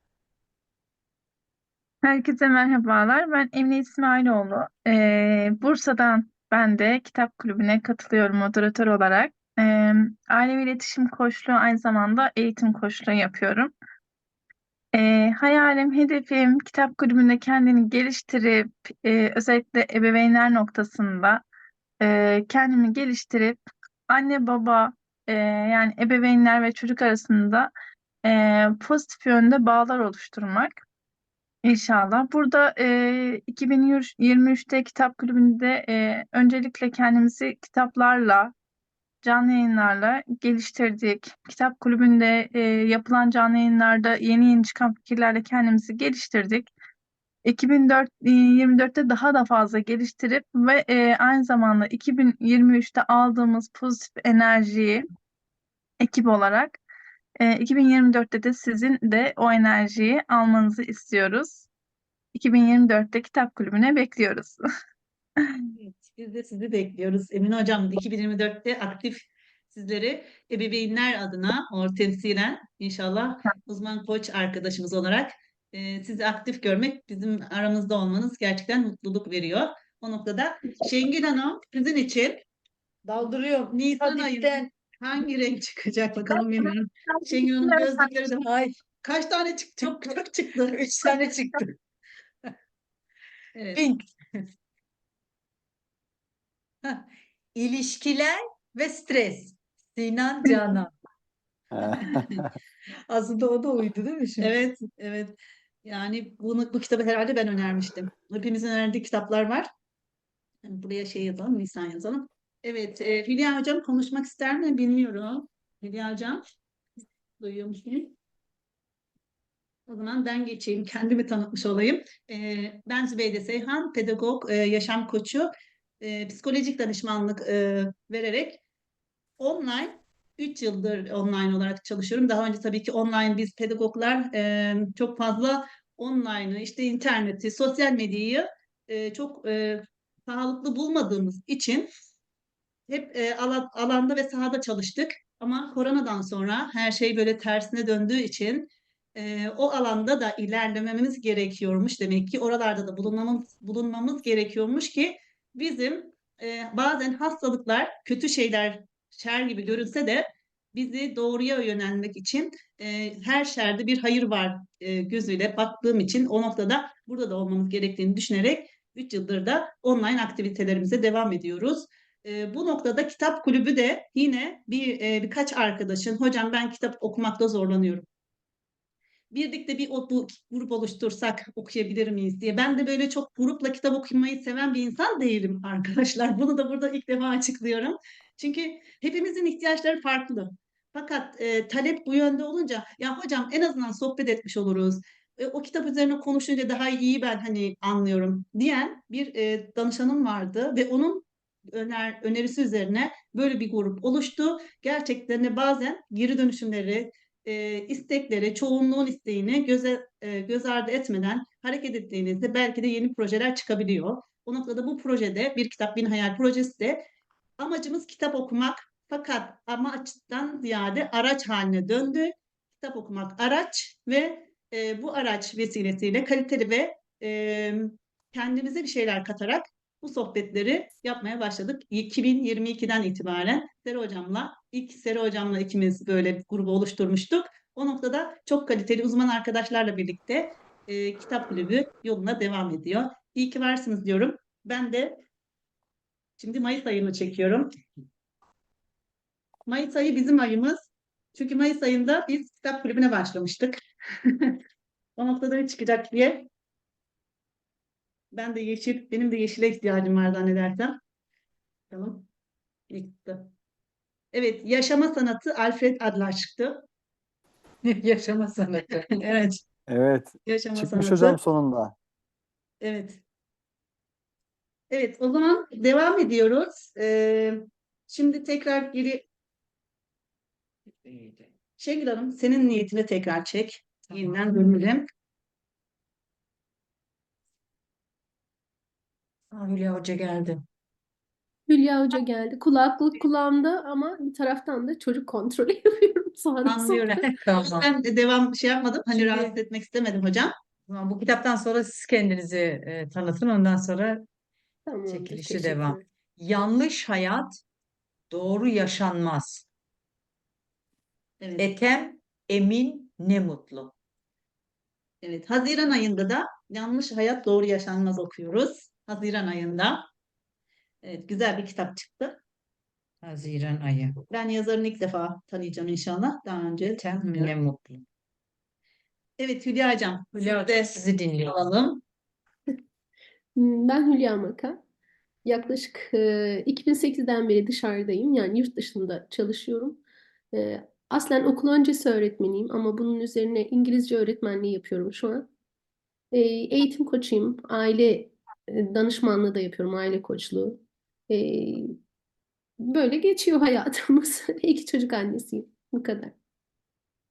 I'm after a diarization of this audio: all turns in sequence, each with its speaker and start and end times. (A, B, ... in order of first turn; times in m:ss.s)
0:02.0-0:13.7 A
0:14.9-0:21.4 A
0:22.0-0:27.7 A
0:28.2-0:30.8 A
0:31.6-0:38.5 A
0:39.2-0:46.7 A
0:47.4-0:55.1 A
0:56.0-0:56.8 A
0:57.4-1:01.7 A
1:02.3-1:04.6 A
1:05.7-1:22.4 B
1:23.0-1:24.7 C
1:23.7-1:28.5 B
1:27.1-1:27.5 A
1:28.4-1:28.8 C
1:29.0-1:31.2 B
1:30.7-1:31.7 C
1:33.5-1:33.8 B
1:33.7-1:34.4 C
1:36.8-1:40.9 C
1:41.7-1:42.5 D
1:41.9-1:42.4 B
1:43.1-1:44.5 C
1:44.4-1:45.3 B
1:45.8-1:49.7 B
1:50.6-1:56.4 B
1:57.4-1:58.1 B
1:59.9-2:05.5 B
2:06.0-2:08.6 B
2:09.4-2:21.9 B
2:22.9-2:58.0 B
2:59.3-3:37.0 B
3:37.6-4:05.2 B
4:06.4-4:07.7 B
4:09.6-4:14.6 B
4:15.2-4:16.5 B
4:18.3-4:21.0 B
4:21.9-4:22.2 B
4:22.9-4:23.5 B
4:24.3-4:26.8 B
4:27.8-4:29.5 C
4:29.2-4:29.6 B
4:29.9-4:31.9 D
4:30.4-4:31.4 B
4:32.8-4:33.2 B
4:34.9-4:39.2 B
4:41.0-4:41.4 C
4:41.8-4:45.0 B
4:49.5-4:50.6 C
4:51.7-4:57.1 E
4:56.6-5:00.5 B
4:57.2-4:57.9 C
4:59.1-4:59.5 C
5:00.9-5:04.2 C
5:04.9-5:06.0 E
5:05.1-5:07.6 C
5:08.3-5:09.6 C
5:11.4-5:11.7 B
5:11.6-5:13.9 C
5:15.2-5:20.1 B
5:21.0-5:22.4 B
5:23.2-5:24.2 C
5:24.3-5:27.5 B
5:27.0-5:28.0 C
5:29.4-5:32.0 B
5:30.4-5:31.6 C
5:33.6-5:34.8 E
5:35.4-5:40.0 E
5:40.5-5:45.5 E
5:46.3-5:52.0 E
5:52.8-5:56.3 E